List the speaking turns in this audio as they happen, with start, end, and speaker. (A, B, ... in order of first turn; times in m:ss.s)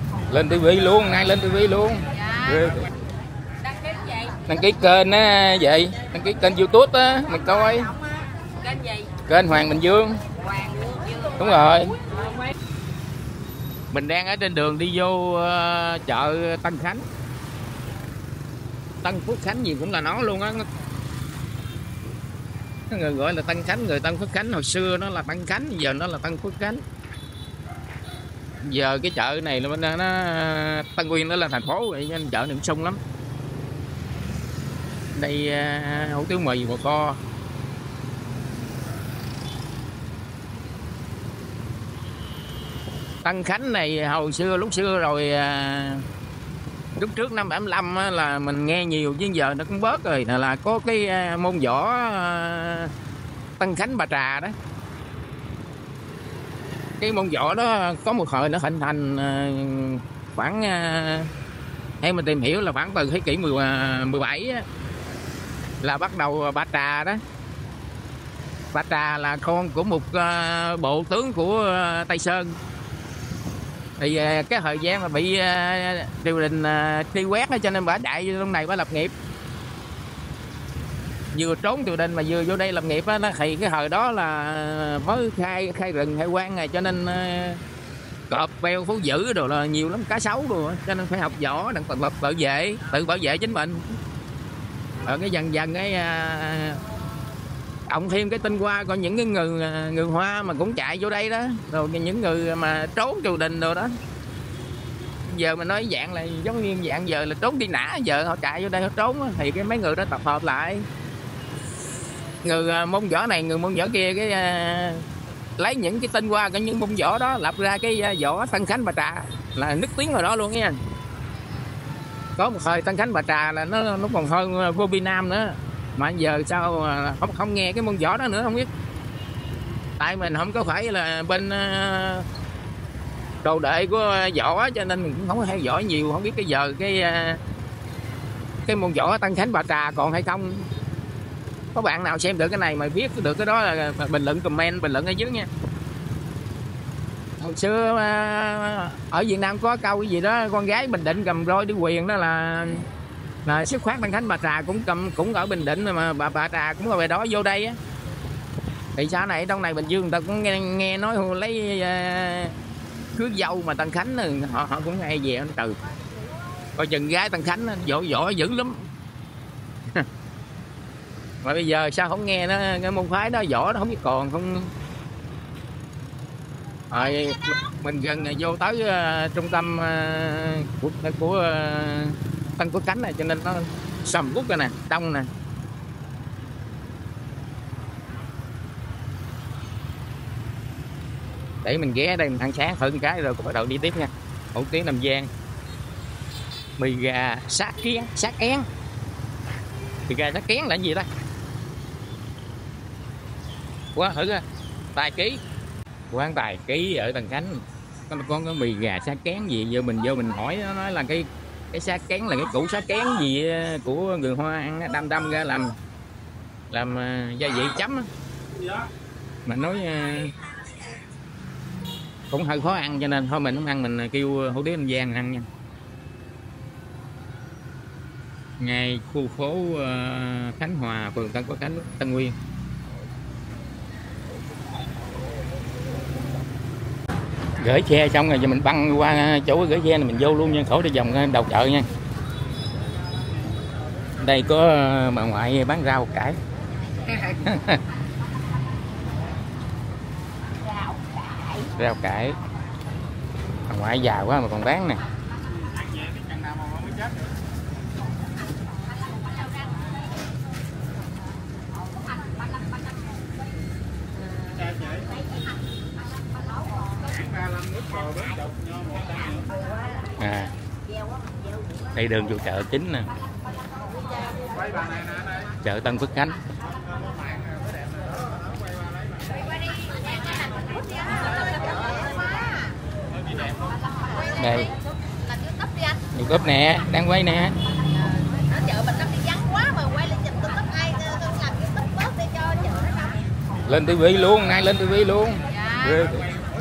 0:00.3-0:02.9 A
0:03.7-0:04.3 B
0:04.5-0:07.9 A
0:08.7-0:09.0 B
0:09.2-0:10.2 A
0:10.5-0:11.2 B
0:11.4-0:12.0 A
0:13.9-0:17.0 A
0:19.0-0:20.6 A
0:22.9-0:26.8 A
0:28.6-0:33.0 A
0:35.1-0:37.2 A
0:43.2-0:46.0 A
0:47.0-0:52.9 A
0:53.6-0:54.5 A
0:57.0-1:01.3 A
1:02.0-1:04.6 A
1:05.8-1:07.2 A
1:08.7-1:12.5 A
1:14.0-1:19.1 A
1:21.3-1:27.6 A
1:28.3-1:33.8 A
1:35.0-1:36.8 A
1:37.9-1:43.9 A
1:45.2-1:50.9 A
1:52.4-1:55.0 A
1:55.6-2:00.7 A
2:02.4-2:08.7 A
2:10.0-2:12.3 A
2:13.4-2:17.4 A
2:18.7-2:20.7 A
2:21.8-2:25.5 A
2:27.4-2:32.9 A
2:33.5-2:37.8 A
2:39.0-2:42.6 A
2:43.2-2:45.8 A
2:46.8-2:48.9 A
2:51.4-2:54.7 A
2:56.9-3:05.3 A
3:11.6-3:15.3 A
3:16.8-3:18.7 A
3:20.1-3:21.1 A
3:24.0-3:24.4 A
3:25.0-3:25.4 A
3:26.1-3:35.8 A
3:36.7-3:38.1 A
3:39.5-3:40.3 A
3:42.3-3:45.5 A
3:48.6-3:52.3 A
3:57.6-4:01.9 A
4:04.2-4:06.4 A
4:07.1-4:07.8 A
4:11.8-4:12.4 A
4:13.7-4:15.0 A
4:24.4-4:25.0 B
4:29.2-4:29.8 B
4:30.2-4:30.5 A
4:31.9-4:33.1 A
4:35.6-4:36.4 A
4:41.0-4:42.6 B
4:44.4-4:44.7 A
4:45.3-4:46.0 B
4:46.1-4:47.6 A
4:48.2-4:53.2 B
4:53.7-4:56.3 A